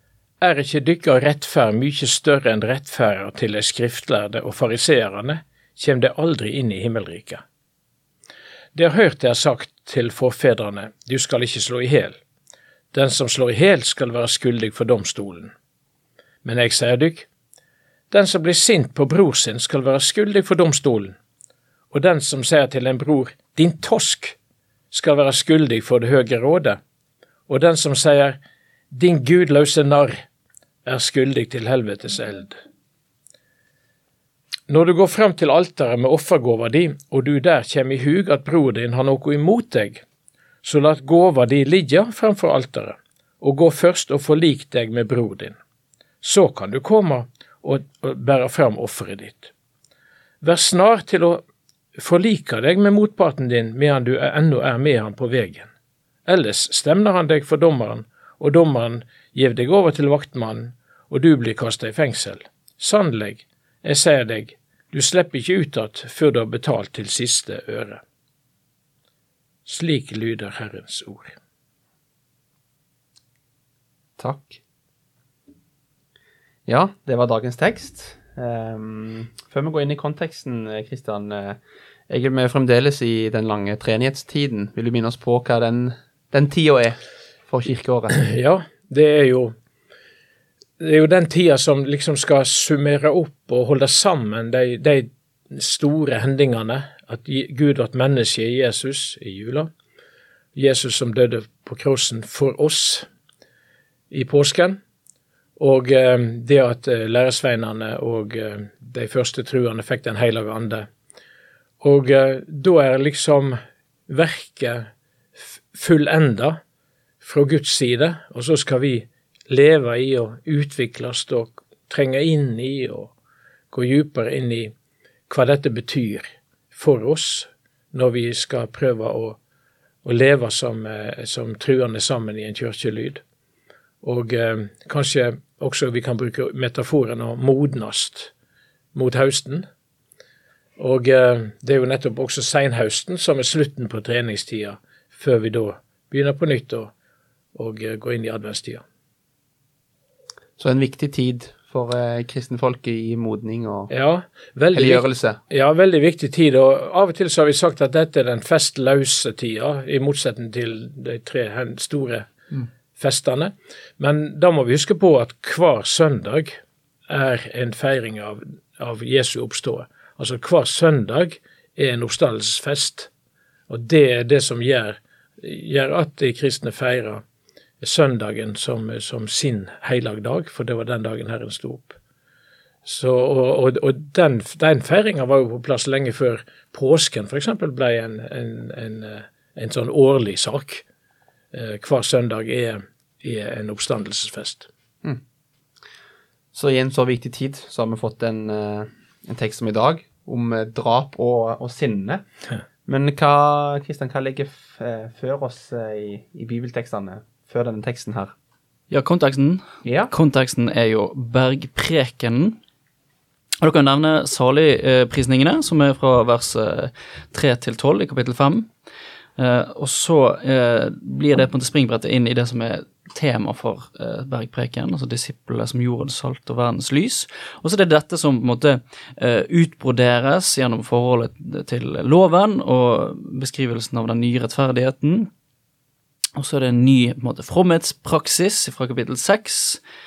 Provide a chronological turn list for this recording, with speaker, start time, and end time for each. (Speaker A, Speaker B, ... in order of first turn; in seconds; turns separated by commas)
Speaker A: 0.4-7.4, Speaker A: 8.8-12.2, Speaker A: 12.9-15.5, Speaker A: 16.4-17.3, Speaker A: 18.1-21.2, Speaker A: 21.9-24.4, Speaker A: 24.9-26.8, Speaker A: 27.5-28.4, Speaker A: 28.9-30.2, Speaker A: 30.9-32.6, Speaker A: 34.7-40.0, Speaker A: 40.6-45.6, Speaker A: 46.2-49.5, Speaker A: 50.4-51.4, Speaker A: 52.0-55.7, Speaker A: 56.3-68.0, Speaker A: 69.7-71.4, Speaker B: 74.2-74.6, Speaker B: 76.7-87.0, Speaker B: 87.5-88.2, Speaker A: 88.2-89.5, Speaker A: 90.8-99.7, Speaker A: 100.5-103.1, Speaker A: 104.1-104.8, Speaker A: 105.6-110.9, Speaker A: 111.8-114.9, Speaker A: 115.4-116.6, Speaker A: 117.2-123.1, Speaker A: 123.7-124.7, Speaker A: 125.3-129.4, Speaker A: 130.0-133.2, Speaker A: 134.0-138.3, Speaker A: 138.9-139.7, Speaker A: 140.8-146.9, Speaker A: 147.6-148.8, Speaker B: 150.6-153.9, Speaker A: 153.9-162.3, Speaker B: 154.7-155.4, Speaker A: 162.9-173.1, Speaker A: 173.7-177.2, Speaker A: 177.8-182.0, Speaker A: 182.8-190.8, Speaker A: 191.5-194.7, Speaker B: 196.5-202.2, Speaker B: 202.9-208.3, Speaker C: 208.9-212.6, Speaker B: 209.8-210.1, Speaker C: 213.6-218.7, Speaker C: 219.4-235.3, Speaker C: 236.4-239.8